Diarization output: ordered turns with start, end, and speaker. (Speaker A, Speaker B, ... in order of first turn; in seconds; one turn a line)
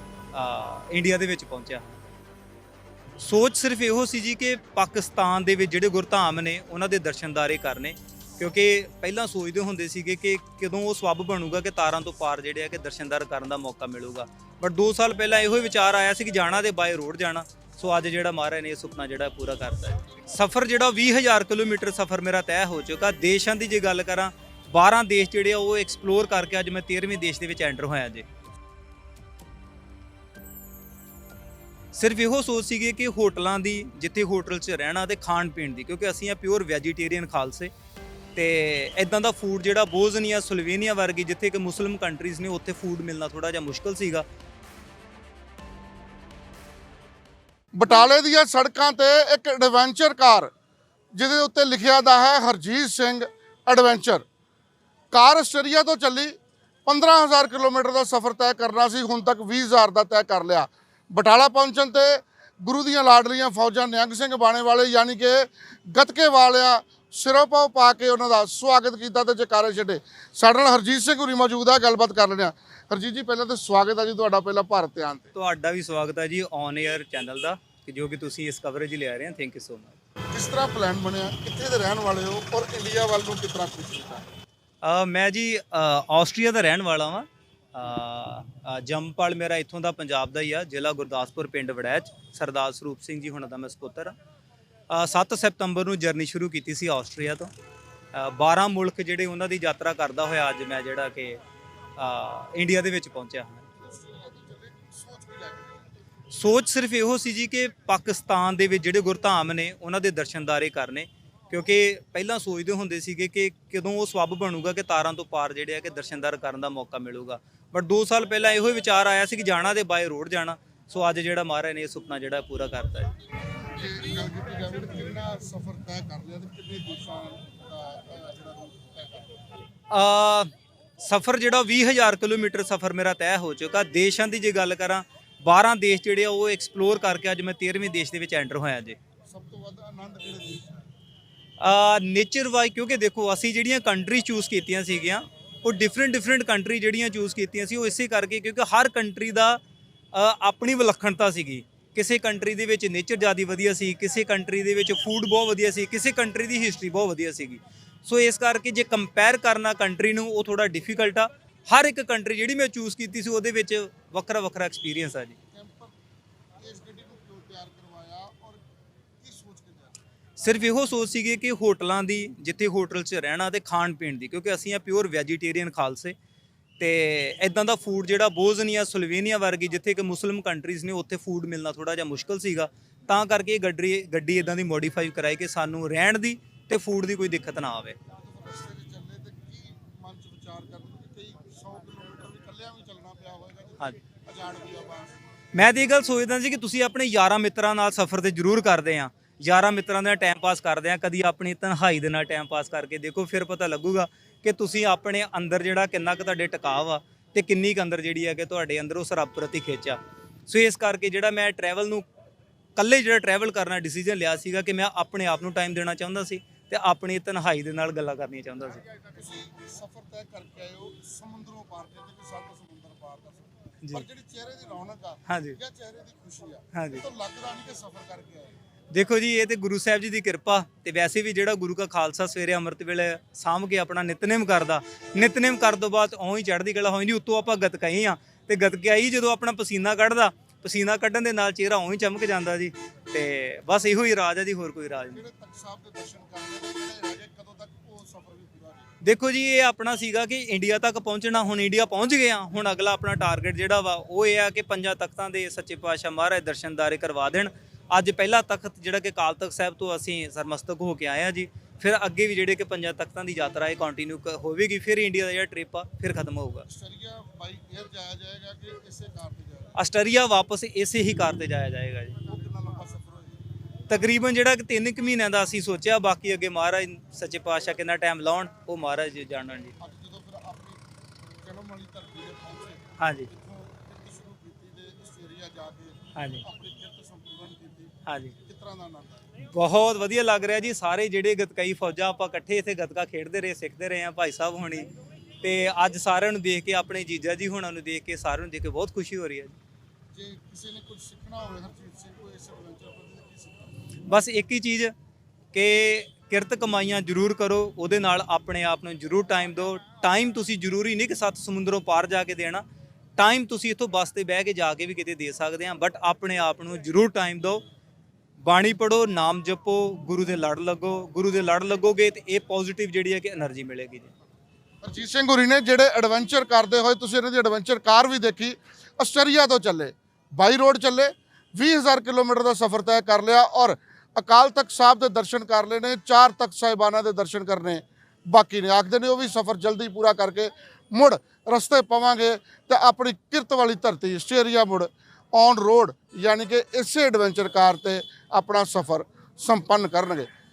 Speaker A: 0.3-2.0
Speaker A: 3.2-28.3
Speaker A: 31.9-37.7
Speaker A: 38.4-44.3
Speaker B: 47.7-50.5
Speaker B: 51.1-54.2
Speaker B: 55.1-75.3
Speaker A: 75.3-80.0
Speaker B: 80.3-84.3
Speaker A: 84.8-94.2
Speaker A: 94.9-97.5
Speaker A: 98.1-101.4
Speaker A: 102.0-103.7
Speaker B: 103.8-105.9
Speaker A: 106.3-123.1
Speaker B: 123.7-129.3
Speaker A: 129.9-139.0
Speaker B: 139.3-140.9
Speaker A: 141.6-149.6
Speaker A: 150.1-165.4
Speaker B: 165.5-165.9
Speaker B: 166.6-168.6
Speaker B: 169.2-170.0
Speaker A: 170.4-176.2
Speaker A: 176.8-188.0
Speaker B: 188.2-195.2
Speaker A: 195.5-212.1
Speaker A: 212.8-218.8
Speaker B: 219.1-228.5
Speaker A: 225.3-225.6
Speaker A: 226.7-227.0
Speaker A: 228.9-245.2
Speaker B: 245.1-248.9
Speaker A: 249.0-266.7
Speaker B: 266.7-269.8
Speaker A: 269.8-272.2
Speaker B: 272.2-273.4
Speaker A: 273.9-279.7
Speaker B: 279.8-280.8
Speaker B: 281.4-289.3
Speaker A: 283.0-283.3
Speaker A: 286.1-286.4
Speaker A: 288.1-288.4
Speaker A: 289.4-294.9
Speaker A: 295.4-299.6
Speaker B: 300.1-303.7
Speaker A: 304.1-304.9
Speaker A: 305.5-312.6
Speaker A: 313.2-317.6
Speaker A: 318.4-324.1
Speaker B: 324.8-350.3